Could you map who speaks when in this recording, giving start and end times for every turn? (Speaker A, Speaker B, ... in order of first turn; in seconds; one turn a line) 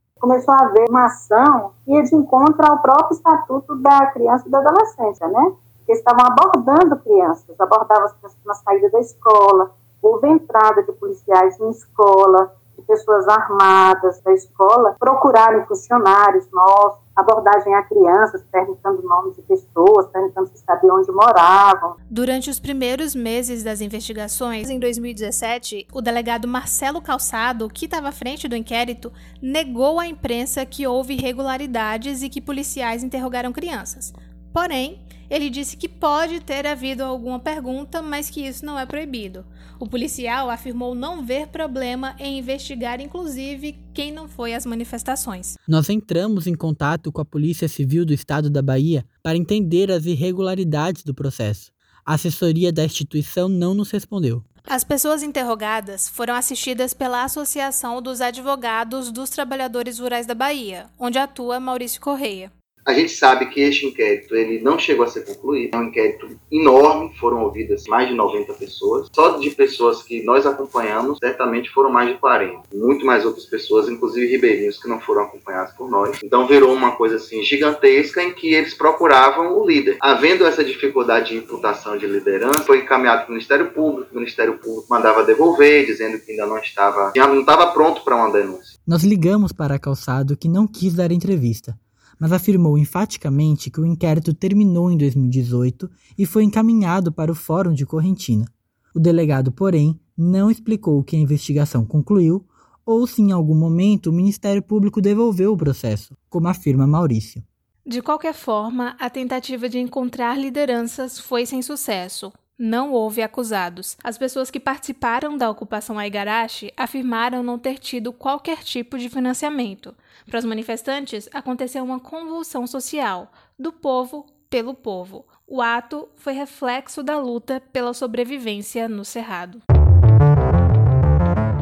Speaker A: 0.2-21.9
Speaker B: 22.1-45.6
Speaker C: 45.6-54.4
Speaker B: 54.7-62.5
Speaker D: 62.9-88.7
Speaker C: 88.8-107.4
Speaker B: 107.9-129.6